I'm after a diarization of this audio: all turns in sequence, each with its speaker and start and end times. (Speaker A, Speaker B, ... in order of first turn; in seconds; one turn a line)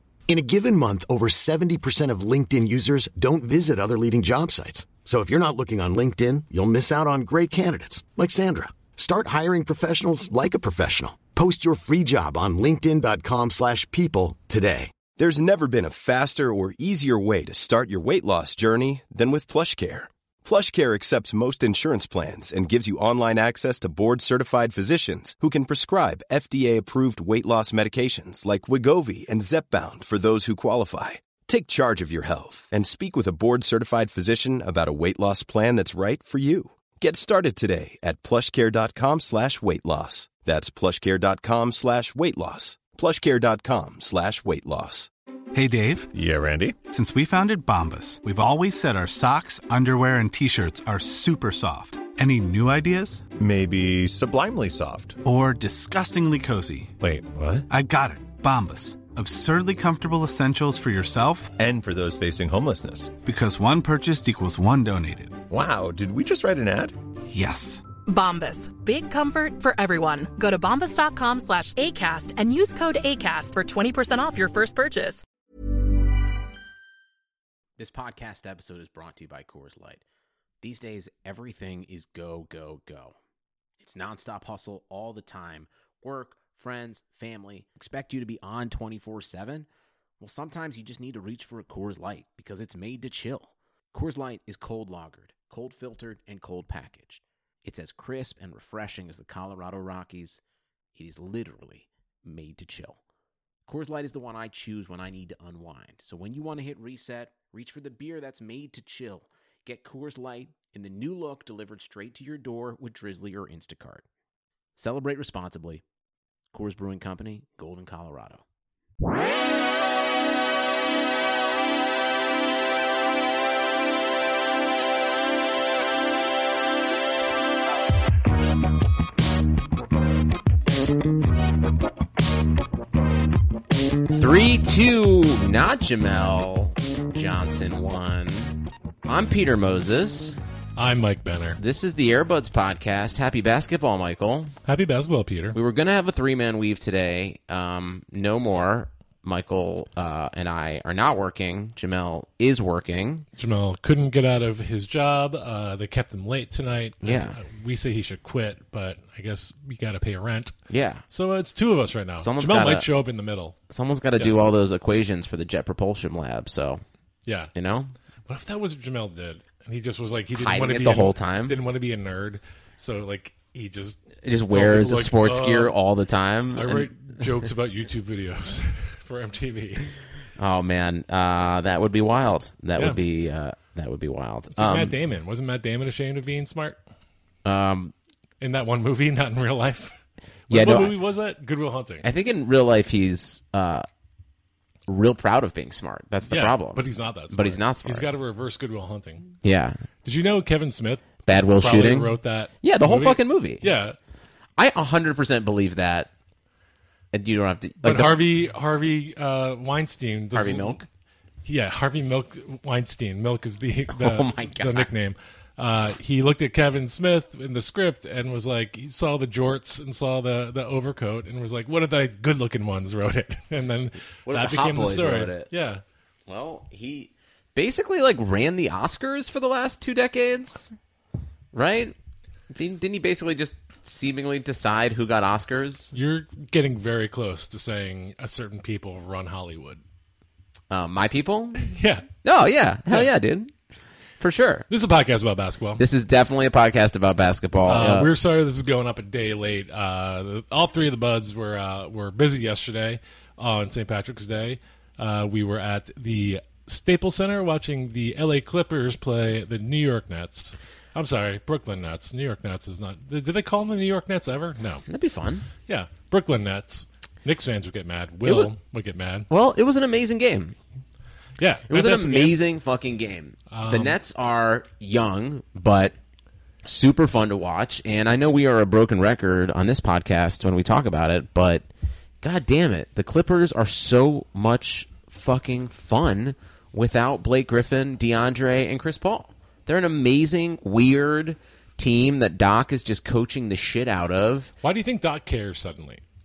Speaker A: 0.3-14.9
Speaker B: 15.2-45.1
Speaker C: 45.5-46.1
Speaker C: 46.9-53.2
Speaker C: 55.2-56.9
Speaker C: 57.7-61.5
Speaker D: 61.7-62.8
Speaker C: 63.2-65.4
Speaker D: 65.5-66.8
Speaker C: 67.3-67.8
Speaker E: 68.1-75.2
Speaker F: 77.8-80.0
Speaker F: 80.6-83.2
Speaker F: 83.8-89.7
Speaker F: 90.2-100.4
Speaker F: 101.0-103.0
Speaker F: 103.7-114.0
Speaker F: 114.8-115.8
Speaker F: 116.5-118.4
Speaker F: 134.1-140.4
Speaker G: 140.8-141.6
Speaker F: 141.6-144.5
Speaker G: 144.7-145.6
Speaker F: 145.5-153.2
Speaker G: 153.4-160.5
Speaker F: 157.0-157.4
Speaker F: 160.7-161.0
Speaker G: 161.1-163.6
Speaker F: 162.2-162.9
Speaker F: 163.7-166.8
Speaker G: 164.2-164.5
Speaker F: 167.5-167.9
Speaker G: 168.3-175.7
Speaker F: 170.4-171.6
Speaker F: 174.2-176.9
Speaker G: 176.6-179.9
Speaker F: 180.4-184.9
Speaker G: 184.6-186.8
Speaker F: 187.4-187.9
Speaker G: 188.4-189.9
Speaker F: 190.5-190.9
Speaker G: 190.5-192.1
Speaker F: 192.0-193.8
Speaker F: 194.9-198.1
Speaker G: 196.3-199.3
Speaker F: 199.4-199.8
Speaker G: 200.1-201.1
Speaker F: 201.3-203.7
Speaker G: 201.6-204.0
Speaker F: 204.6-206.1
Speaker F: 207.1-208.2
Speaker G: 207.8-210.8
Speaker F: 210.3-210.8
Speaker G: 211.4-225.8
Speaker F: 213.9-214.9
Speaker F: 224.3-225.5
Speaker F: 226.3-230.7
Speaker F: 231.5-231.9
Speaker F: 232.5-235.9
Speaker G: 235.9-239.8
Speaker F: 240.7-241.7
Speaker G: 241.6-242.1
Speaker F: 242.2-243.5
Speaker F: 244.2-244.7
Speaker G: 244.7-245.8
Speaker F: 245.8-248.1
Speaker G: 247.7-264.9
Speaker F: 264.9-265.5
Speaker G: 265.7-269.3
Speaker F: 268.2-268.5
Speaker F: 269.3-270.6
Speaker G: 271.4-272.4
Speaker F: 271.7-275.9
Speaker G: 273.5-274.0
Speaker F: 276.6-281.6
Speaker F: 282.2-294.5
Speaker G: 294.6-296.0